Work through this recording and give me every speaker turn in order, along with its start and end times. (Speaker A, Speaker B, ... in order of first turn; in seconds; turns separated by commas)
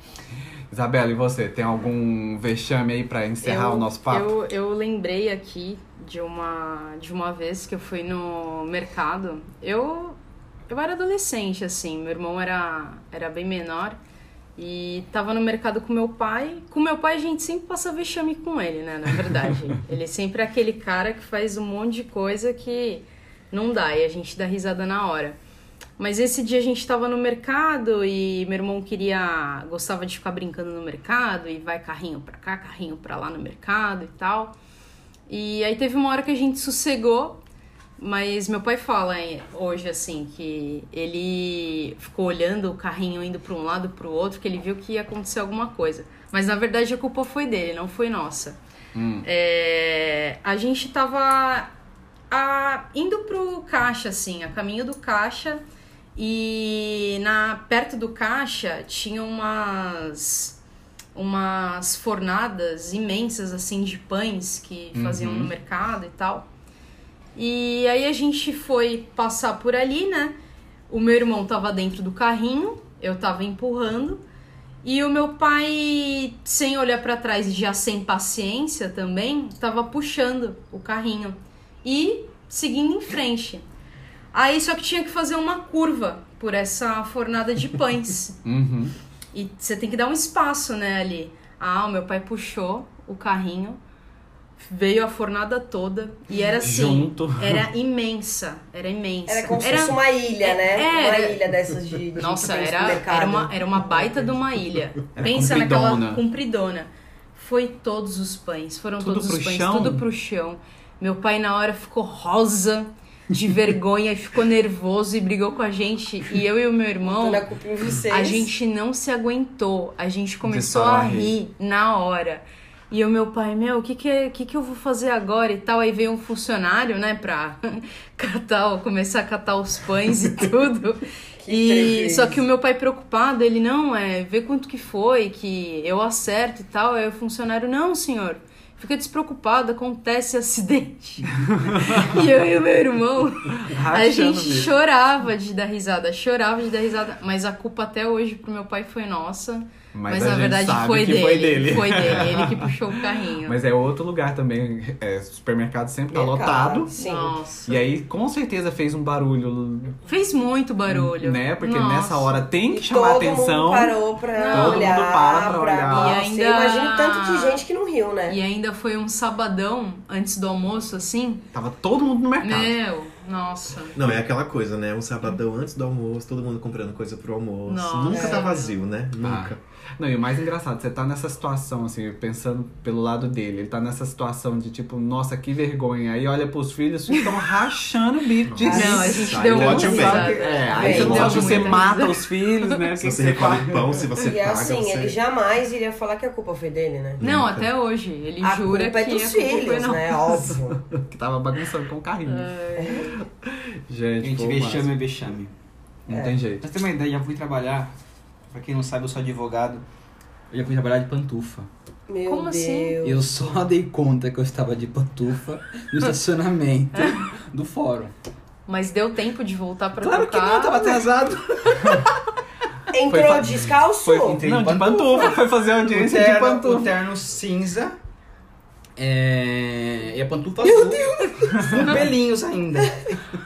Speaker A: 0.7-4.3, Speaker B: 3.4-10.2, Speaker B: 10.7-14.0, Speaker B: 14.6-25.4, Speaker B: 26.0-34.5, Speaker B: 35.3-37.4, Speaker B: 38.0-48.6, Speaker A: 49.0-49.3, Speaker B: 49.2-51.7, Speaker B: 52.3-55.6, Speaker B: 56.2-60.6, Speaker B: 61.1-66.5, Speaker A: 64.9-65.5, Speaker B: 67.4-70.4, Speaker B: 70.9-74.2, Speaker B: 74.8-83.7, Speaker B: 84.3-88.4, Speaker A: 88.5-88.9, Speaker B: 89.3-93.8, Speaker B: 94.6-101.4, Speaker A: 96.6-97.6, Speaker C: 99.3-104.3, Speaker B: 102.2-117.5, Speaker A: 105.2-106.2, Speaker A: 109.0-110.0, Speaker C: 117.0-118.5, Speaker B: 118.1-153.6, Speaker A: 120.4-121.3, Speaker C: 131.4-132.4, Speaker A: 143.6-144.8, Speaker A: 149.9-152.7, Speaker A: 153.4-156.9, Speaker C: 156.1-157.4, Speaker B: 156.9-157.8, Speaker A: 157.7-160.0, Speaker B: 160.1-162.5, Speaker A: 160.9-164.0, Speaker C: 162.7-168.4, Speaker B: 164.3-165.0, Speaker A: 164.5-166.2, Speaker B: 165.9-167.6, Speaker B: 168.3-171.5, Speaker A: 171.5-172.8, Speaker B: 172.4-174.0, Speaker D: 173.9-179.6, Speaker B: 177.7-178.8, Speaker C: 178.1-178.4, Speaker A: 179.2-194.1, Speaker D: 188.5-191.7, Speaker B: 188.6-192.8, Speaker C: 188.7-189.1, Speaker C: 190.7-191.6, Speaker D: 193.0-195.2, Speaker C: 194.2-197.2, Speaker D: 197.2-197.7, Speaker B: 197.2-200.3, Speaker C: 198.4-200.8, Speaker A: 200.3-204.9, Speaker B: 202.3-203.1, Speaker C: 202.8-203.1, Speaker E: 204.2-205.5, Speaker A: 206.1-206.6, Speaker C: 206.1-206.4, Speaker E: 206.6-207.9, Speaker E: 208.5-209.8, Speaker E: 210.5-211.7, Speaker C: 212.1-213.3, Speaker B: 212.3-213.0, Speaker E: 213.0-218.1, Speaker B: 216.9-217.2, Speaker B: 218.7-221.0, Speaker E: 220.0-222.0, Speaker C: 222.9-224.4, Speaker A: 223.1-223.8, Speaker E: 224.1-228.0, Speaker A: 224.4-226.9, Speaker E: 229.0-233.2, Speaker C: 230.6-231.9